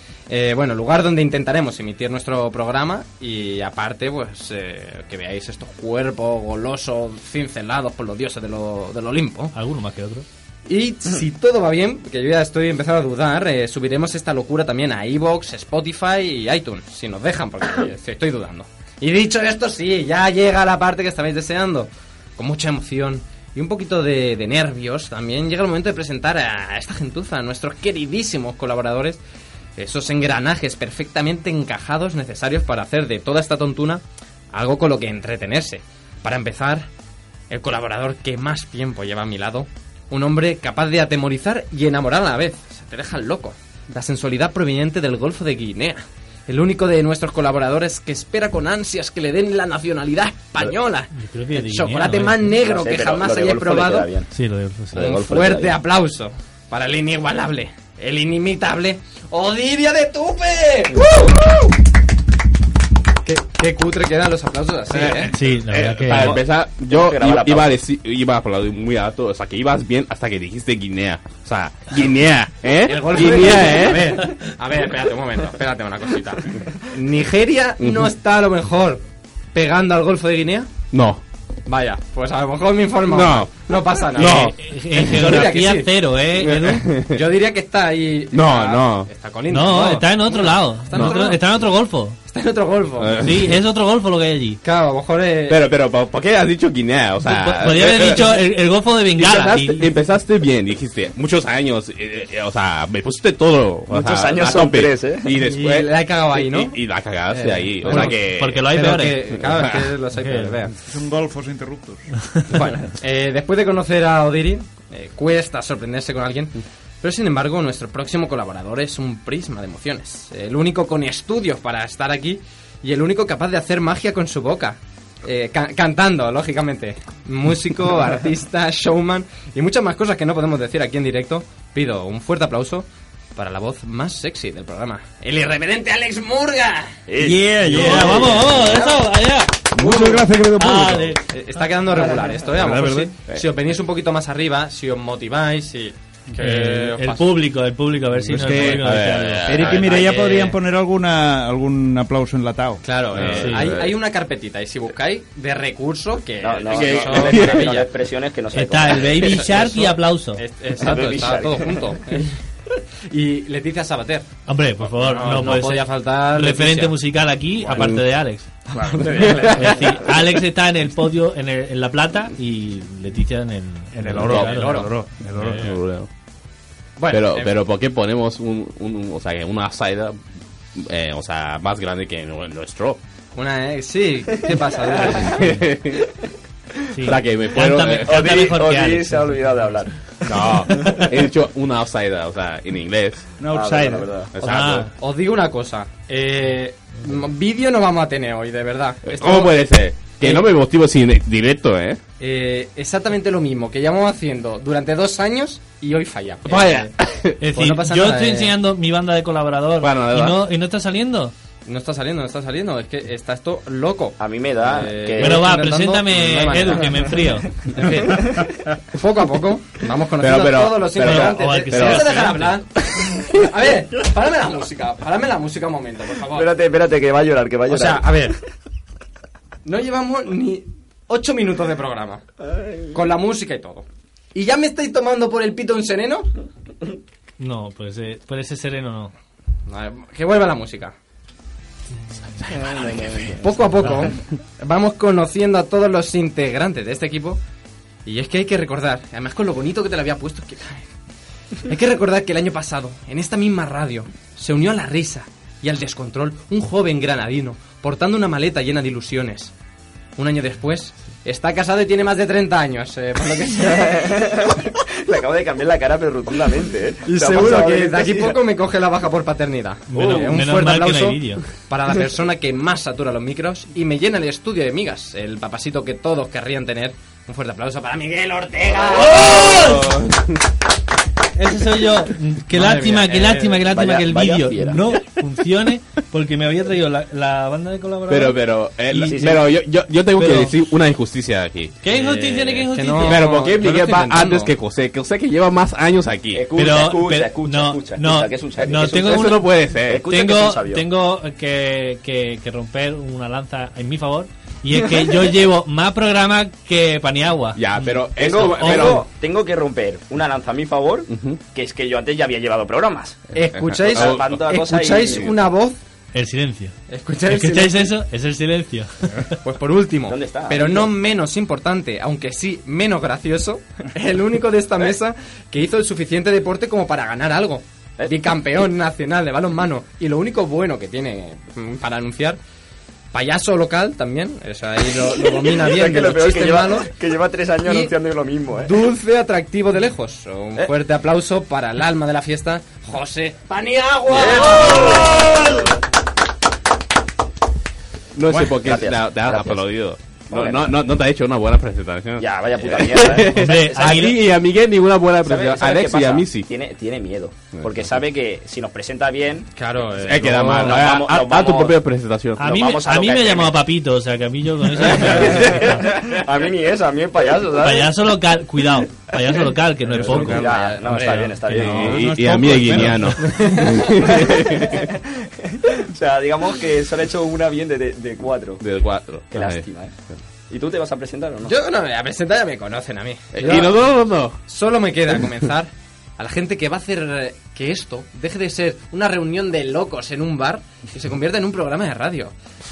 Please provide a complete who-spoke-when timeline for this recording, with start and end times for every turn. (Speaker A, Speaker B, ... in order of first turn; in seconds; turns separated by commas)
Speaker A: 0.3-9.5, Speaker B: 9.5-10.3, Speaker A: 10.7-29.2, Speaker A: 29.8-36.9, Speaker A: 37.5-54.1, Speaker B: 51.1-52.5, Speaker C: 52.6-54.3, Speaker B: 54.3-55.1, Speaker C: 54.9-55.8, Speaker A: 54.9-61.7, Speaker C: 61.0-61.3, Speaker A: 63.2-65.3, Speaker D: 64.9-74.3, Speaker B: 65.3-66.3, Speaker C: 66.1-67.8, Speaker A: 72.8-79.0, Speaker D: 77.8-78.1, Speaker A: 79.5-80.7, Speaker D: 80.9-81.2, Speaker A: 81.7-85.9, Speaker D: 83.1-84.5, Speaker B: 84.2-86.9, Speaker D: 86.4-87.2, Speaker A: 87.1-91.4, Speaker D: 88.3-89.1, Speaker B: 89.5-92.2, Speaker D: 90.9-91.2, Speaker A: 92.2-93.2, Speaker D: 93.0-93.6, Speaker B: 93.2-94.6, Speaker A: 94.6-95.7, Speaker D: 95.5-98.4, Speaker B: 97.2-99.9, Speaker A: 99.2-99.7, Speaker D: 99.2-108.7, Speaker C: 103.9-105.3, Speaker A: 105.4-106.8, Speaker A: 107.3-110.8, Speaker B: 107.9-109.4, Speaker D: 109.4-110.0, Speaker B: 110.1-110.6, Speaker E: 110.8-112.0, Speaker B: 112.2-112.4, Speaker A: 112.5-137.0, Speaker C: 137.1-138.4, Speaker E: 137.2-138.6, Speaker B: 137.7-139.7, Speaker A: 138.0-139.0, Speaker E: 139.7-141.2, Speaker A: 139.8-140.3, Speaker B: 140.6-141.2, Speaker A: 141.3-147.3, Speaker C: 142.0-142.5, Speaker E: 142.5-143.2, Speaker B: 146.4-149.5, Speaker E: 148.3-152.9, Speaker D: 148.4-149.9, Speaker A: 149.6-150.6, Speaker A: 152.8-157.9, Speaker D: 153.1-153.9, Speaker B: 153.2-153.7, Speaker C: 156.4-159.6, Speaker D: 156.7-157.8, Speaker B: 158.5-160.4, Speaker A: 159.1-162.4, Speaker C: 160.8-162.0, Speaker A: 163.1-164.3, Speaker B: 164.5-168.5, Speaker A: 164.8-166.9, Speaker E: 167.6-168.0, Speaker E: 168.7-169.2, Speaker A: 168.8-170.1, Speaker B: 169.5-174.9, Speaker E: 174.0-175.7, Speaker D: 174.1-174.5, Speaker A: 174.3-175.7, Speaker D: 175.3-176.1, Speaker A: 177.0-177.6, Speaker D: 177.1-180.2, Speaker D: 180.8-183.0, Speaker A: 183.4-185.3, Speaker C: 184.9-185.2, Speaker D: 185.2-186.1, Speaker B: 185.3-185.6, Speaker B: 186.9-189.7, Speaker D: 187.0-188.3, Speaker C: 188.0-190.2, Speaker D: 190.2-193.3, Speaker E: 193.4-194.1, Speaker C: 193.5-194.3, Speaker D: 194.3-194.9, Speaker B: 194.4-194.9, Speaker A: 194.5-199.6, Speaker D: 199.1-202.0, Speaker A: 202.2-206.9, Speaker D: 206.4-207.4, Speaker B: 207.4-211.3, Speaker A: 207.5-208.5, Speaker D: 209.8-210.4, Speaker A: 211.7-217.1, Speaker C: 214.2-215.5, Speaker B: 215.2-217.6, Speaker A: 217.7-226.5, Speaker D: 220.2-222.4, Speaker B: 221.0-222.6, Speaker C: 226.3-228.3, Speaker A: 227.7-228.4, Speaker A: 229.7-232.2, Speaker C: 232.4-232.9, Speaker A: 232.9-236.3, Speaker B: 237.4-239.1, Speaker A: 239.7-240.9, Speaker C: 242.5-244.1, Speaker A: 243.3-247.4, Speaker A: 248.1-250.9, Speaker A: 251.7-259.5, Speaker A: 260.2-264.1, Speaker C: 263.6-268.4, Speaker A: 267.1-279.4, Speaker B: 269.9-271.5, Speaker C: 269.9-270.3, Speaker B: 279.0-280.0, Speaker D: 279.1-280.4, Speaker B: 281.4-289.3, Speaker A: 282.5-283.6, Speaker C: 283.7-285.0, Speaker D: 288.1-291.8, Speaker C: 288.9-289.6, Speaker B: 290.2-290.6, Speaker B: 291.8-293.3, Speaker A: 291.9-294.5, Speaker D: 293.0-296.5, Speaker C: 296.3-300.9, Speaker B: 296.6-299.5, Speaker D: 298.8-300.1, Speaker B: 300.1-309.0, Speaker D: 307.6-309.1, Speaker C: 308.2-313.3, Speaker D: 311.1-311.4, Speaker A: 313.3-315.8, Speaker D: 313.5-314.4, Speaker C: 313.9-315.3, Speaker B: 316.1-316.8, Speaker A: 316.9-317.9, Speaker B: 317.3-319.4, Speaker A: 319.4-332.4, Speaker C: 320.1-320.9, Speaker C: 328.0-328.3, Speaker A: 333.1-336.9, Speaker C: 335.0-338.8, Speaker A: 337.6-337.9, Speaker A: 338.6-345.2, Speaker C: 344.1-345.7, Speaker D: 348.1-356.5, Speaker C: 348.5-349.7, Speaker C: 350.3-350.8, Speaker C: 352.2-353.3, Speaker B: 353.3-354.2, Speaker C: 355.2-359.5, Speaker D: 357.5-357.9, Speaker A: 359.6-360.9, Speaker D: 360.0-362.6, Speaker C: 360.4-361.8, Speaker B: 362.4-365.8, Speaker C: 362.4-363.6, Speaker C: 364.8-367.9, Speaker B: 367.6-371.7, Speaker E: 369.9-370.5, Speaker C: 370.0-372.1, Speaker A: 370.4-371.3, Speaker D: 371.5-374.9, Speaker E: 371.6-373.3, Speaker A: 373.2-374.2, Speaker C: 374.1-378.6, Speaker D: 378.6-379.6, Speaker C: 379.3-379.9, Speaker C: 380.5-381.5, Speaker A: 381.4-383.9, Speaker D: 383.3-384.4, Speaker A: 384.4-392.3